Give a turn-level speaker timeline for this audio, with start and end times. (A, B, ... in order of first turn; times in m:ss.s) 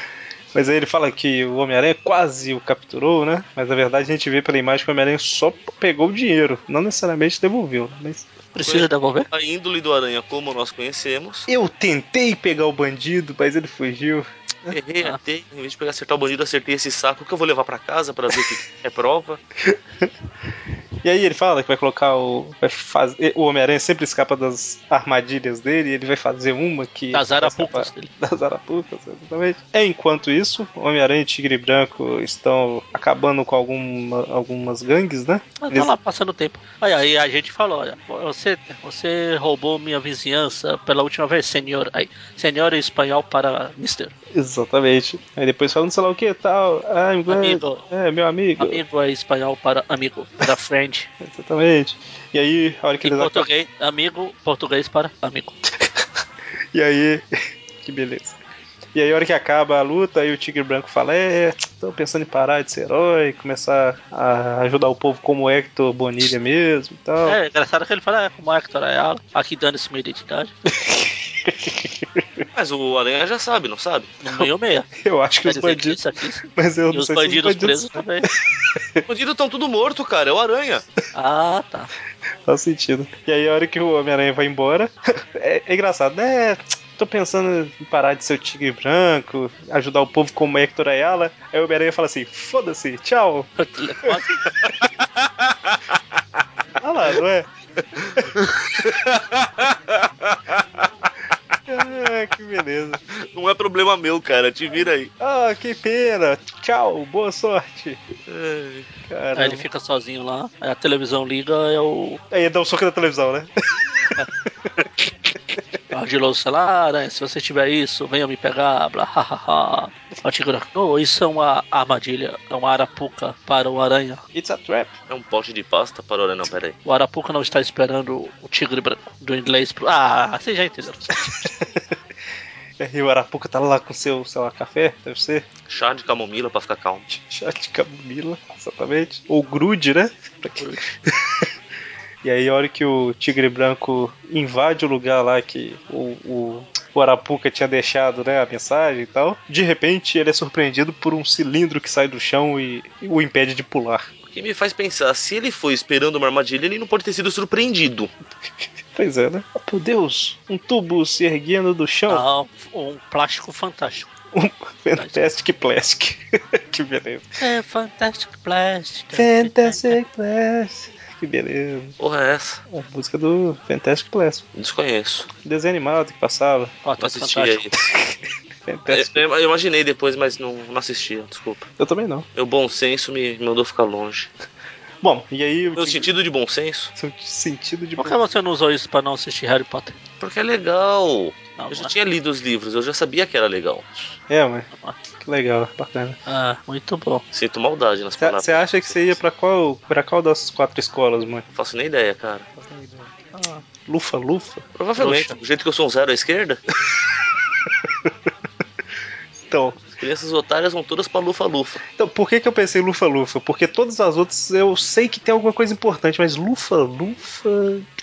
0:00.5-0:08.3 A
0:08.5-0:09.3 B
0:08.6-0:11.5 C
0:11.5-0:14.7 A
0:14.7-0:19.4 C
0:19.6-0:20.1 A
0:21.0-0:35.9 A
0:27.1-0:28.1 B
0:35.6-0:44.1 B
0:44.3-0:48.8 A
0:47.3-0:47.8 B
0:48.6-0:51.1 B
0:51.2-0:53.5 A
0:53.0-0:55.6 B
0:55.8-0:56.0 A
0:56.7-0:57.2 A
0:57.8-0:58.4 A
0:58.9-1:07.4 A
1:07.2-1:10.5 B
1:10.7-1:12.4 A
1:12.5-1:14.5 C
1:14.2-1:14.9 B
1:15.0-1:16.0 A
1:15.4-1:18.3 B
1:16.5-1:19.0 A
1:19.1-1:20.8 C
1:21.1-1:21.9 B
1:22.4-1:33.5 A
1:33.6-1:34.4 B
1:34.6-1:36.0 C
1:36.8-1:37.5 A
1:37.9-1:40.9 C
1:41.7-1:43.0 A
1:43.1-1:45.1 C
1:45.2-1:48.0 A
1:48.3-1:48.9 C
1:49.1-1:49.6 A
1:49.3-1:52.2 B
1:52.3-1:54.9 A
1:55.9-2:04.2 B
2:04.3-2:04.9 A
2:05.1-2:06.8 C
2:06.8-2:11.3 B
2:11.2-2:11.9 A
2:12.8-2:15.4 A
2:15.7-2:17.1 C
2:17.1-2:21.5 A
2:20.6-2:20.9 B
2:22.2-2:34.1 A
2:34.3-2:38.1 C
2:38.9-2:42.2 A
2:42.1-2:44.1 B
2:44.3-2:47.3 A
2:45.0-2:45.2 B
2:47.4-2:50.0 B
2:49.1-2:52.0 A
2:52.0-2:52.6 C
2:52.7-2:54.4 A
2:54.5-2:55.3 C
2:55.4-2:56.8 A
2:56.8-2:57.7 B
2:57.0-2:57.8 C
2:57.9-2:59.2 A
2:58.9-3:01.7 C
3:01.8-3:02.2 A
3:02.4-3:04.3 C
3:05.0-3:06.1 A
3:05.7-3:06.9 C
3:07.0-3:08.2 A
3:08.0-3:10.0 B
3:10.2-3:13.9 C
3:11.6-3:11.9 B
3:14.3-3:14.7 A
3:15.2-3:16.2 A
3:16.3-3:17.2 B
3:17.3-3:19.2 C
3:18.2-3:21.4 A
3:21.5-3:22.4 C
3:22.6-3:23.2 A
3:23.3-3:23.6 B
3:23.8-3:24.6 A
3:24.8-3:26.6 C
3:25.0-3:25.4 B
3:27.8-3:28.1 A
3:29.5-3:29.8 A
3:30.0-3:31.8 C
3:32.0-3:37.9 A